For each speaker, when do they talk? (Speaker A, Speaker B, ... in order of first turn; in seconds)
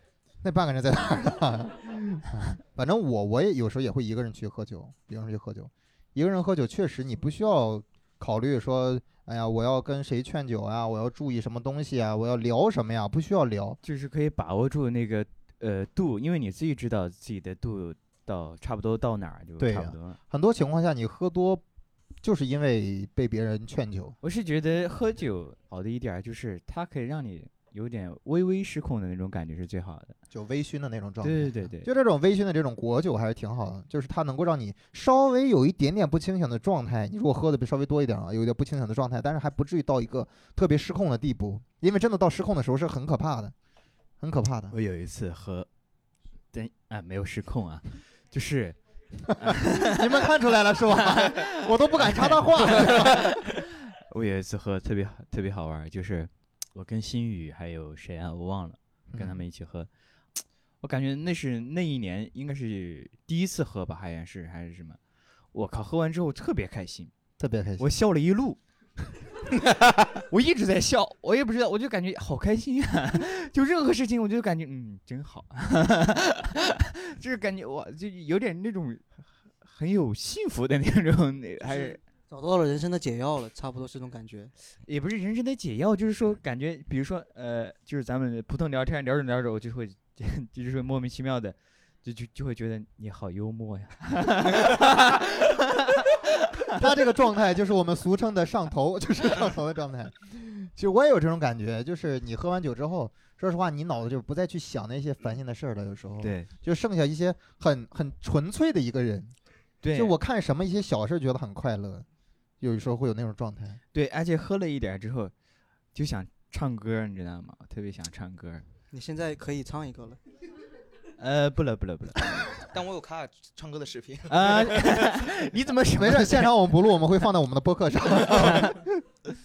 Speaker A: 0.4-13.8, 19.6-21.6, 22.2-24.1, 30.3-43.5, 44.2-44.7, 49.3-53.3, 59.1-59.4, 67.4-67.8, 96.7-109.3, 109.9-112.0, 112.6-113.8, 126.0-129.0
Speaker B: 13.8-20.2, 24.2-30.1, 31.2-31.9, 44.7-45.7, 46.5-48.8, 49.3-50.2, 51.0-59.9, 60.8-65.0, 65.5-67.1, 67.8-68.6, 70.3-82.0, 84.8-96.7, 106.2-106.5, 109.8-110.1, 113.9-115.3, 115.9-118.6, 121.2-122.3, 124.3-127.0
Speaker C: 81.7-84.5, 118.9-120.2
Speaker D: 122.7-125.0